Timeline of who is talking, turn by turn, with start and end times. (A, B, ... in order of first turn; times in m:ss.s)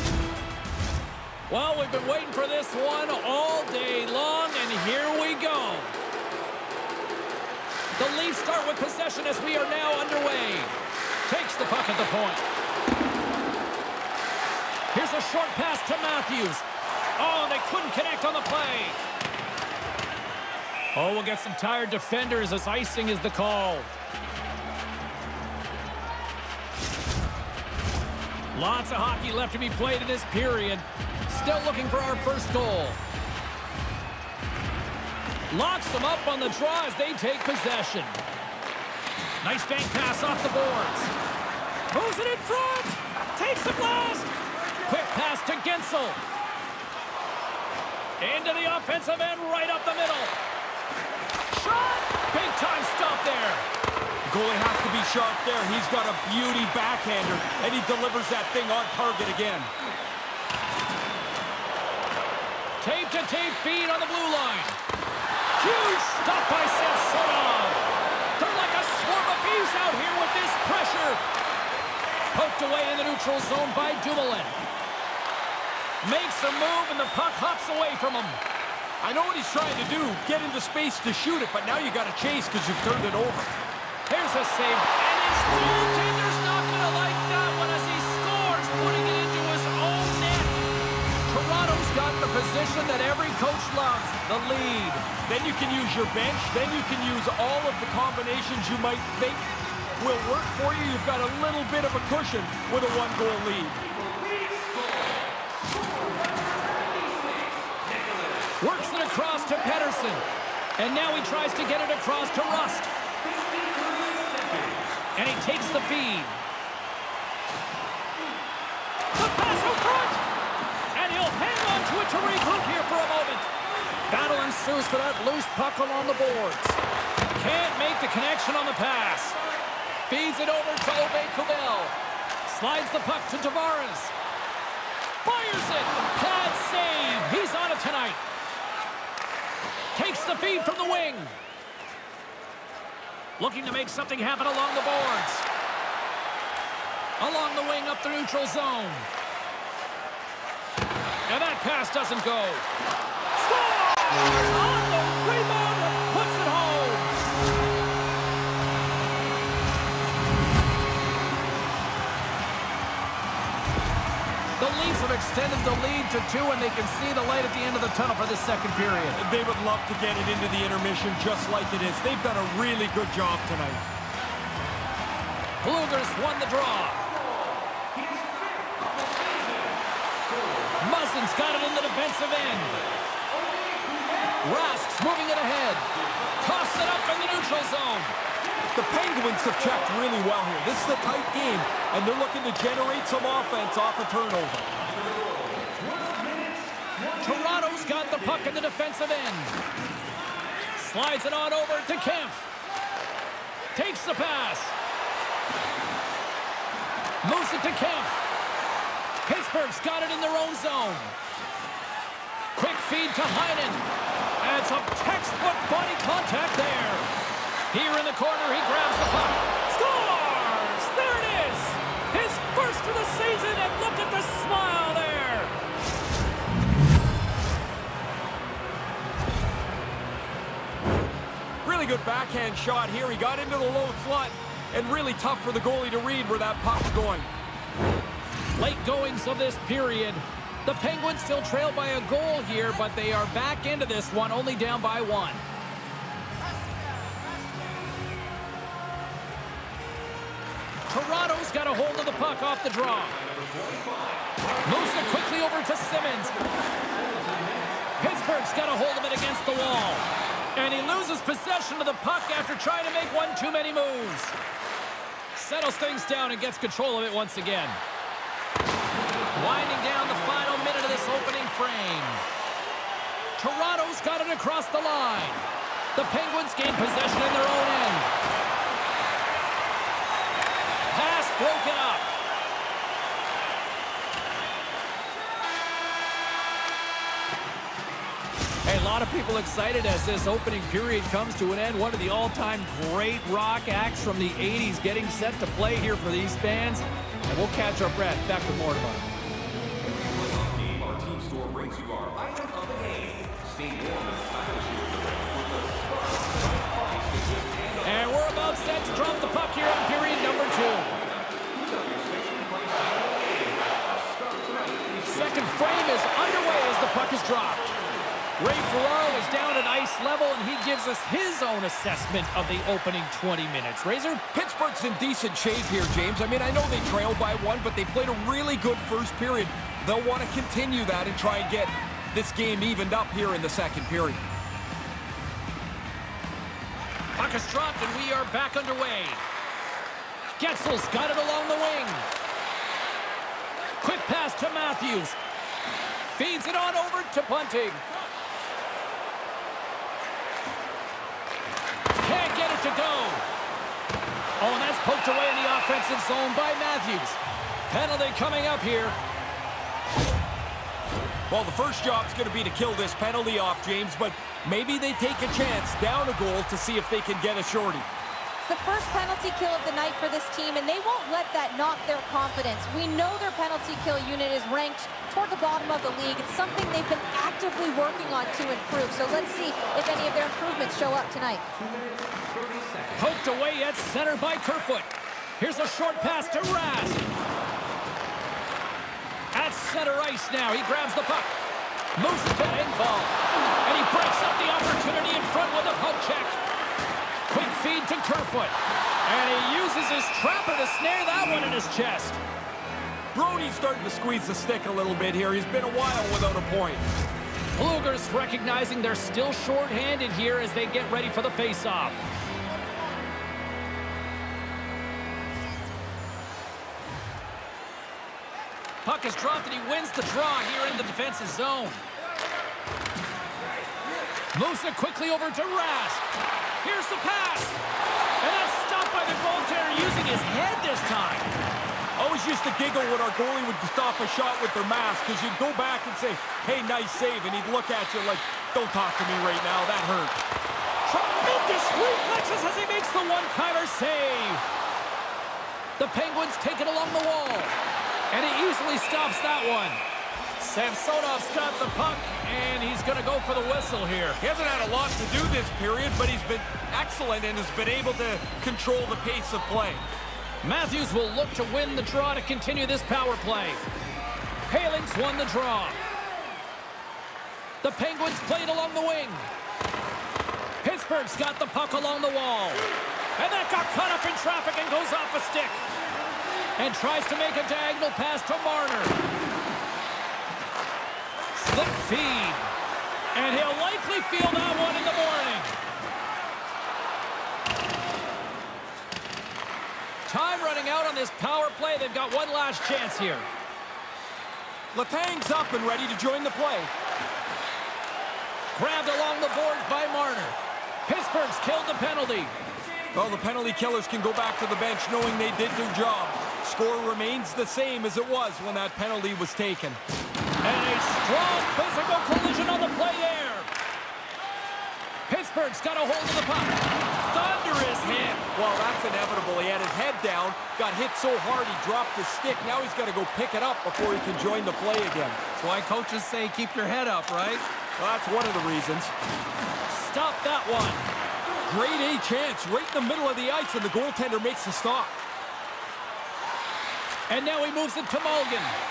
0:01.5-0:05.9 A
0:08.0-0:10.7 A
0:11.2-0:12.4 A
0:14.9-0:16.6 A
0:17.2-0:19.0 A
0:20.9-0:23.9 A
0:28.5-0:33.0 A
0:35.5-0:38.2 A
0:39.4-0:41.1 A
0:41.9-0:44.3 A
0:44.8-0:46.2 A
0:48.2-0:50.3 A
0:51.5-0:53.6 A
0:54.3-0:59.7 B
1:02.8-1:04.8 A
1:05.6-1:07.8 A
1:08.4-1:11.2 A
1:12.3-1:14.6 A
1:16.0-1:18.4 A
1:19.0-1:23.5 B
1:24.1-1:30.6 A
1:31.3-1:35.0 A
1:35.2-1:43.9 B
1:46.9-1:48.2 B
1:48.6-1:50.2 A
1:50.8-1:52.9 A
1:53.4-1:54.8 B
1:55.1-1:56.4 A
1:59.1-2:00.2 A
2:00.9-2:03.5 A
2:04.1-2:06.8 A
2:07.3-2:09.4 A
2:10.1-2:11.9 A
2:12.4-2:14.1 A
2:15.2-2:18.2 A
2:19.9-2:21.3 A
2:23.4-2:25.4 A
2:27.2-2:29.1 A
2:31.3-2:32.6 A
2:33.4-2:37.2 A
2:44.6-2:49.2 A
2:49.1-2:53.8 B
2:55.6-2:57.0 A
2:58.0-2:59.7 B
3:00.8-3:02.8 A
3:03.6-3:03.8 B
3:04.4-3:08.1 A
3:08.7-3:14.7 B
3:17.0-3:19.6 A
3:20.7-3:22.4 A
3:23.7-3:24.8 A
3:27.2-3:28.2 A
3:29.2-3:31.1 A
3:32.5-3:33.8 A
3:34.4-3:37.1 A
3:37.7-3:45.5 A
3:51.6-3:57.3 B
3:58.6-4:05.4 A
4:10.9-4:13.2 A
4:13.4-4:14.3 B
4:14.6-4:16.4 A
4:17.0-4:17.7 B
4:18.0-4:24.4 A
4:25.3-4:27.8 A
4:29.3-4:32.2 A
4:33.4-4:38.1 A
4:40.9-4:42.0 A
4:48.6-4:59.1 A
4:59.8-5:07.8 B
5:07.8-5:11.0 A
5:11.3-5:15.1 B
5:15.0-5:17.7 A
5:18.4-5:24.2 A
5:24.3-5:34.2 B
5:37.1-5:39.2 A
5:40.4-5:42.1 A
5:43.8-5:45.2 A
5:46.1-5:47.8 A
5:52.0-5:53.2 A
5:54.4-5:57.2 A
5:57.7-5:59.0 A
6:01.3-6:07.9 B
6:08.4-6:21.4 C
6:22.9-6:27.0 A
6:29.3-6:31.3 A
6:32.0-6:36.4 A
6:37.3-6:42.2 A
6:43.1-6:46.8 B
6:47.5-6:52.0 A
6:58.8-7:01.8 A
7:04.3-7:06.0 A
7:06.6-7:07.6 A
7:08.2-7:11.3 A
7:12.0-7:20.2 B
7:20.8-7:24.4 A
7:25.8-7:27.6 A
7:28.1-7:29.8 A
7:30.4-7:34.2 A
7:34.2-7:39.8 B
7:40.4-7:43.6 A
7:44.5-7:45.8 A
7:47.6-7:49.3 A
7:50.6-7:55.6 A
7:56.6-7:59.0 A
8:01.3-8:02.5 A
8:03.1-8:05.5 A
8:10.1-8:13.3 A
8:14.7-8:16.7 B
8:18.5-8:22.3 A
8:22.9-8:29.8 B
8:30.4-8:33.5 A
8:35.1-8:38.2 A
8:38.0-8:45.2 B
8:45.4-8:47.4 A
8:47.8-8:48.9 B
8:49.7-8:50.9 A
8:51.4-8:55.0 B
8:57.1-8:58.5 A